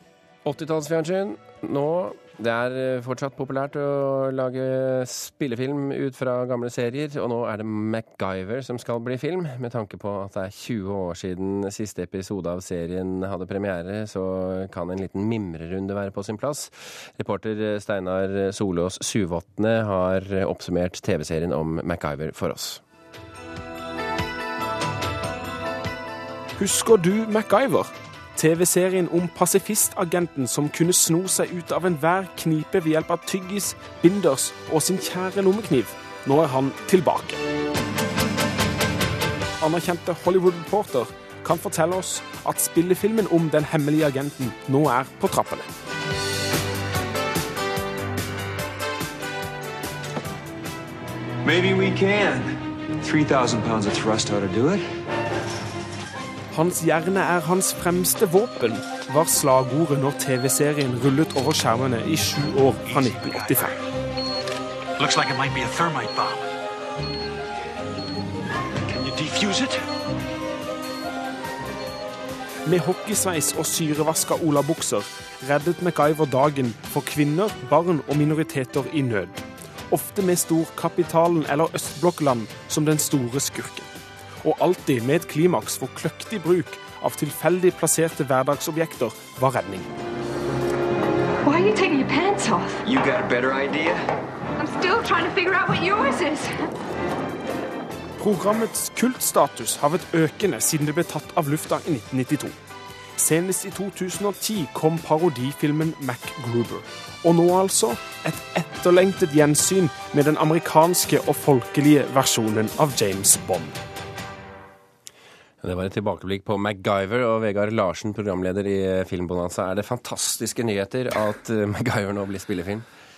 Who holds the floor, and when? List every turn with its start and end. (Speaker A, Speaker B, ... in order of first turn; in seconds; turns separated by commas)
Speaker A: 0.4-22.8, Speaker B: 26.6-37.4, Speaker B: 39.6-45.7, Speaker C: 51.4-54.9, Speaker B: 56.5-63.8, Speaker D: 65.0-66.4, Speaker D: 68.9-69.8, Speaker B: 72.7-83.9, Speaker B: 84.4-89.9, Speaker E: 91.5-92.8, Speaker C: 92.8-94.0, Speaker E: 94.6-96.5, Speaker B: 98.2-102.5, Speaker B: 103.2-113.8, Speaker A: 115.6-122.8